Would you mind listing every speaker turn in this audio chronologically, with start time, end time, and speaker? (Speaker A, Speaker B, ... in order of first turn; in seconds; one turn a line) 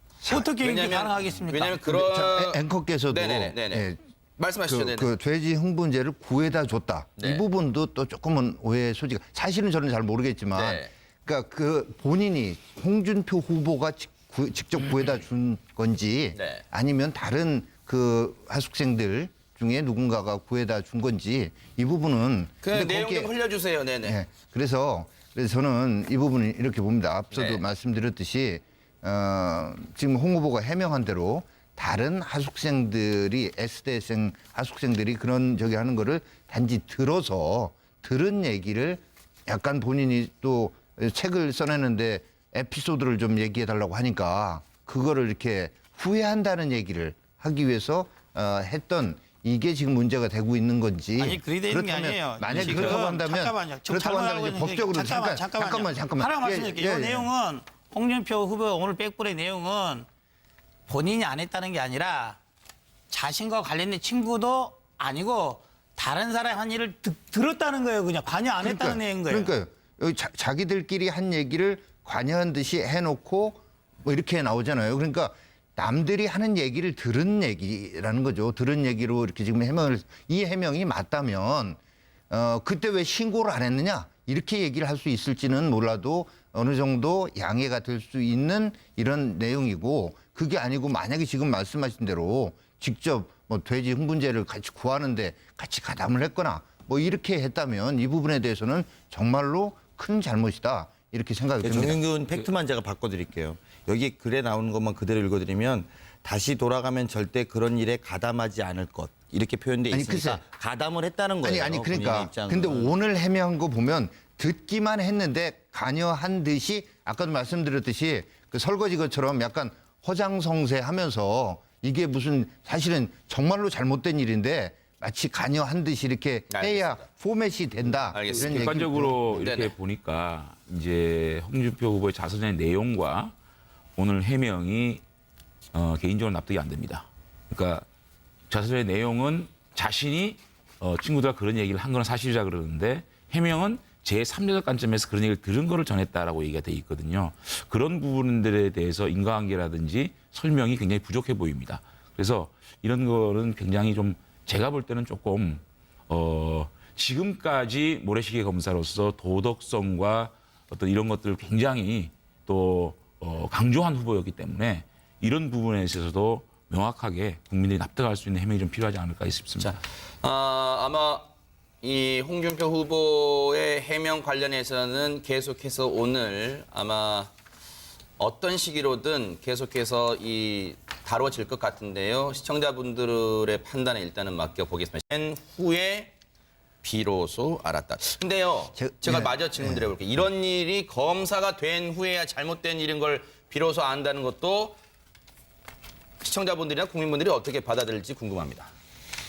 Speaker A: 0.2-1.9
Speaker B: 0.5-5.1
Speaker C: 1.9-4.0
Speaker C: 4.7-23.3
Speaker B: 7.2-7.4
Speaker B: 10.6-10.9
Speaker B: 16.4-16.6
Speaker B: 22.6-24.2
Speaker C: 24.0-57.3
Speaker B: 27.3-27.6
Speaker A: 51.2-60.1
Speaker A: 60.9-62.4
Speaker A: 63.1-69.5
Speaker C: 68.6-81.8
Speaker C: 82.3-102.0
Speaker D: 101.6-112.9
Speaker C: 109.9-110.4
Speaker C: 111.4-129.4
Speaker B: 126.5-127.0
Speaker B: 128.1-128.8
Speaker E: 128.3-133.3
Speaker B: 129.4-129.7
Speaker E: 134.0-135.0
Speaker E: 135.7-137.8
Speaker E: 138.5-169.8
Speaker B: 169.6-171.3
Speaker B: 171.8-177.3
Speaker B: 178.2-186.1
Speaker B: 186.8-194.8
Speaker C: 188.8-189.9
Speaker B: 196.2-198.7